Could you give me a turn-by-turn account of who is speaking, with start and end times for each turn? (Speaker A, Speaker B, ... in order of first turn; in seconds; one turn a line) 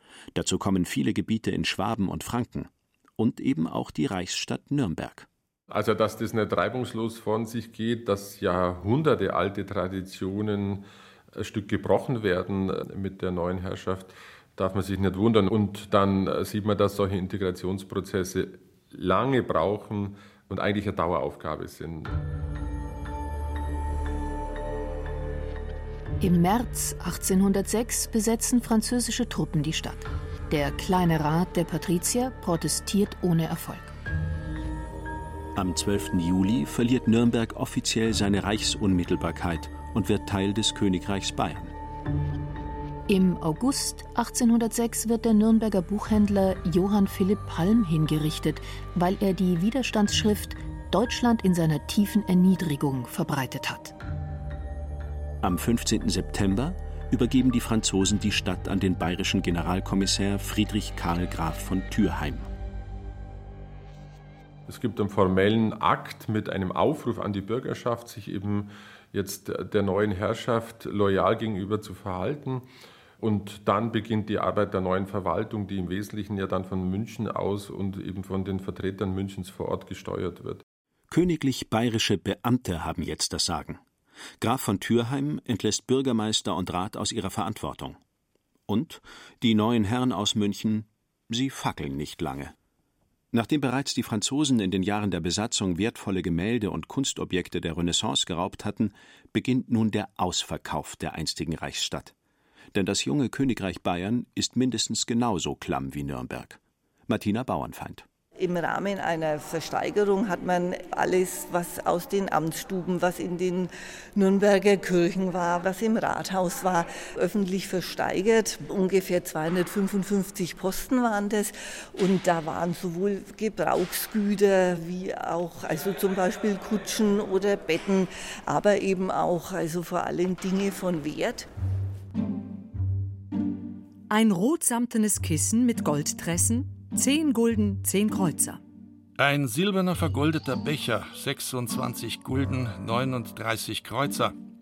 Speaker A: 0.3-5.3
Speaker B: 5.7-22.1
Speaker C: 26.2-33.9
Speaker A: 35.5-41.7
Speaker C: 43.1-53.9
Speaker A: 55.4-62.5
Speaker B: 64.7-72.7
Speaker B: 73.2-80.6
Speaker A: 81.1-83.8
Speaker A: 84.4-88.0
Speaker A: 88.7-92.5
Speaker A: 93.3-102.1
Speaker A: 102.7-108.0
Speaker D: 108.4-131.5
Speaker E: 134.1-138.6
Speaker F: 139.2-144.3